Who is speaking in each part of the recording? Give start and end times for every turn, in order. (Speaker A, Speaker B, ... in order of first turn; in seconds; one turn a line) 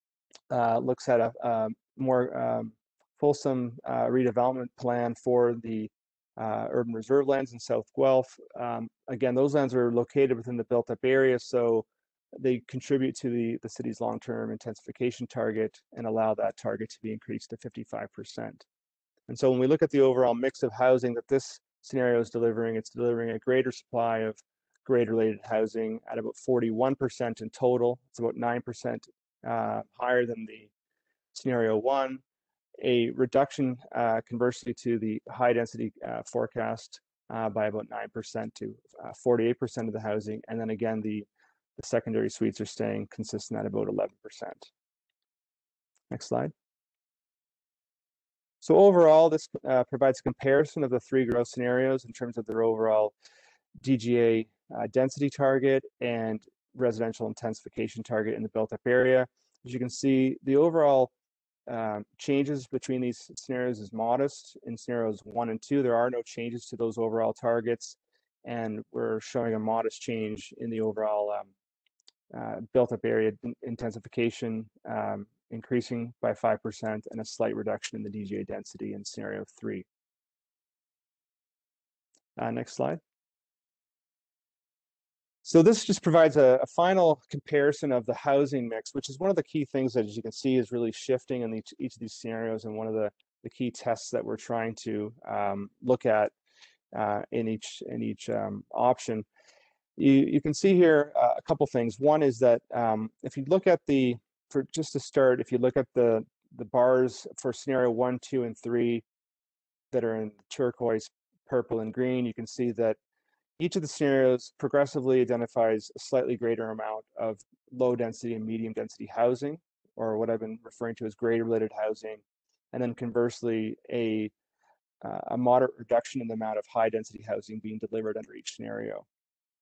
Speaker A: 0.5-18.6
Speaker A: 19.3-30.7
Speaker A: 31.3-32.2
Speaker A: 32.8-44.7
Speaker A: 46.1-46.5
Speaker A: 48.6-53.1
Speaker A: 53.8-61.1
Speaker A: 61.7-71.5
Speaker A: 72.3-79.8
Speaker A: 82.4-83.0
Speaker A: 85.4-96.3
Speaker A: 96.9-99.2
Speaker A: 100.0-109.0
Speaker A: 109.9-113.0
Speaker A: 113.6-122.2
Speaker A: 122.7-124.3
Speaker A: 125.0-129.0